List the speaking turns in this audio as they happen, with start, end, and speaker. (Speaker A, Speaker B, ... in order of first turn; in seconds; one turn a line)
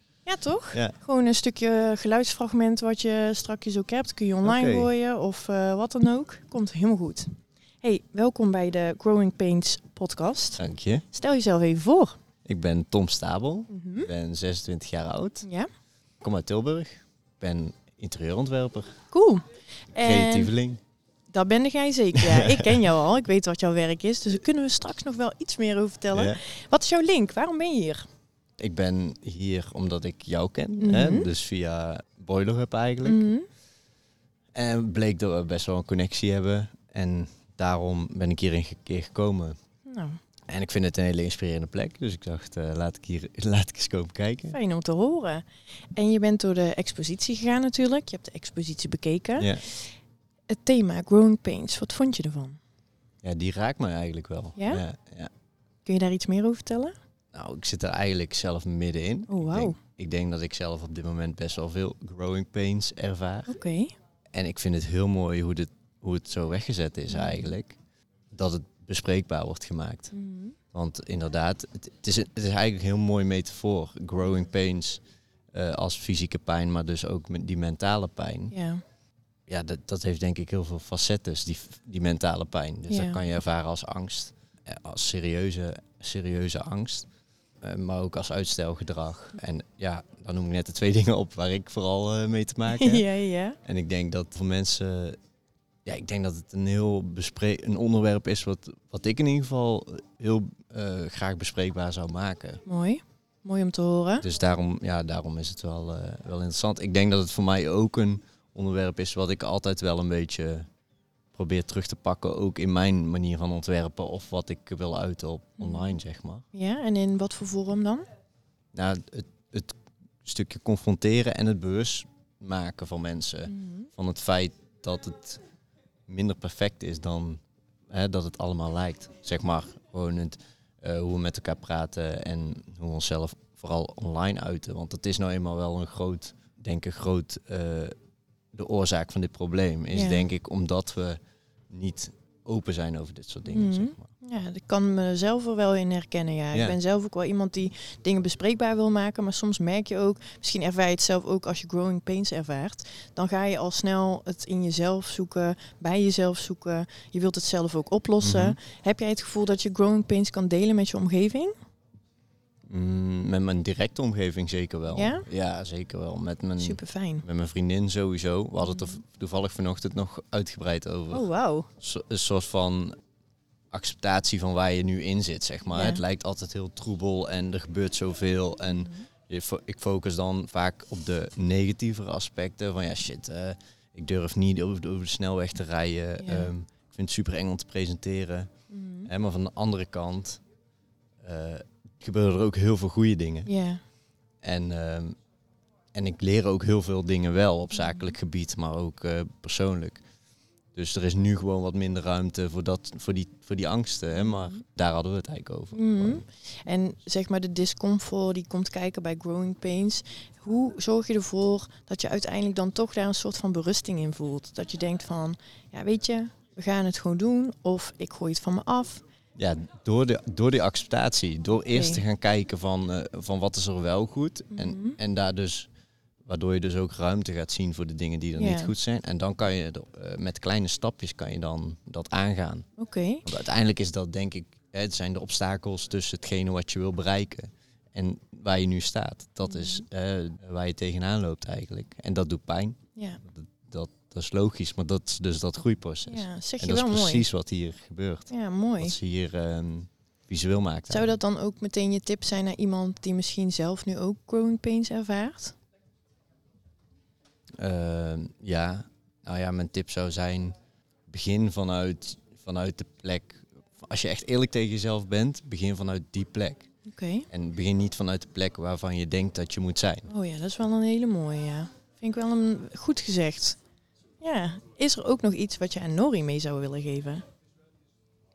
Speaker A: 0.2-10.6
Speaker B: 4.4-4.9
Speaker B: 10.6-11.0
Speaker A: 11.1-12.2
Speaker B: 12.4-15.5
Speaker A: 13.7-14.1
Speaker B: 16.2-19.0
Speaker A: 19.1-20.5
Speaker B: 20.0-20.8
Speaker A: 21.3-28.0
Speaker B: 22.2-22.9
Speaker B: 26.1-26.4
Speaker B: 28.6-33.3
Speaker A: 30.8-31.3
Speaker A: 33.0-33.4
Speaker B: 34.5-39.6
Speaker A: 39.9-40.2
Speaker B: 40.5-44.6
Speaker A: 44.5-45.4
Speaker A: 46.0-49.8
Speaker B: 49.4-49.6
Speaker A: 50.5-52.6
Speaker B: 53.2-55.3
Speaker A: 54.6-54.8
Speaker A: 55.9-56.9
Speaker B: 57.3-63.5
Speaker A: 59.3-59.8
Speaker A: 63.5-63.9
Speaker B: 64.3-67.8
Speaker A: 67.1-67.5
Speaker B: 68.3-70.1
Speaker A: 70.1-70.5
Speaker B: 70.7-75.0
Speaker B: 75.5-78.5
Speaker A: 78.5-78.8
Speaker B: 79.5-87.1
Speaker A: 82.9-83.2
Speaker B: 87.6-93.0
Speaker A: 92.7-93.6
Speaker B: 93.6-95.2
Speaker B: 95.8-102.6
Speaker A: 102.7-104.2
Speaker B: 104.2-110.7
Speaker B: 111.3-116.4
Speaker A: 115.6-116.0
Speaker A: 116.5-118.0
Speaker B: 118.7-125.4
Speaker A: 123.5-123.9
Speaker B: 126.1-137.9
Speaker B: 138.5-141.2
Speaker A: 139.9-140.2
Speaker B: 141.7-144.1
Speaker A: 143.5-161.5
Speaker B: 158.2-158.6
Speaker B: 162.7-171.2
Speaker A: 164.9-165.2
Speaker A: 166.6-167.2
Speaker A: 171.1-171.7
Speaker B: 171.8-172.9
Speaker B: 173.7-188.5
Speaker A: 175.7-176.0
Speaker A: 178.7-179.0
Speaker A: 186.2-186.5
Speaker A: 188.7-189.1
Speaker B: 189.1-190.4
Speaker B: 191.2-193.5
Speaker A: 193.4-193.8
Speaker B: 194.4-195.2
Speaker B: 195.9-200.0
Speaker A: 197.8-198.1
Speaker B: 200.7-206.2
Speaker A: 204.2-204.6
Speaker A: 205.7-219.0
Speaker B: 219.4-225.7
Speaker A: 221.7-222.0
Speaker A: 224.5-225.0
Speaker B: 226.2-232.7
Speaker A: 228.4-228.7
Speaker A: 232.8-233.2
Speaker B: 233.2-251.2
Speaker A: 239.4-239.8
Speaker A: 242.9-243.2
Speaker A: 246.1-247.2
Speaker A: 248.3-248.9
Speaker A: 250.9-255.6
Speaker B: 257.6-260.5
Speaker B: 261.1-266.7
Speaker A: 266.9-267.3
Speaker B: 267.3-270.1
Speaker A: 270.1-273.6
Speaker A: 274.2-277.2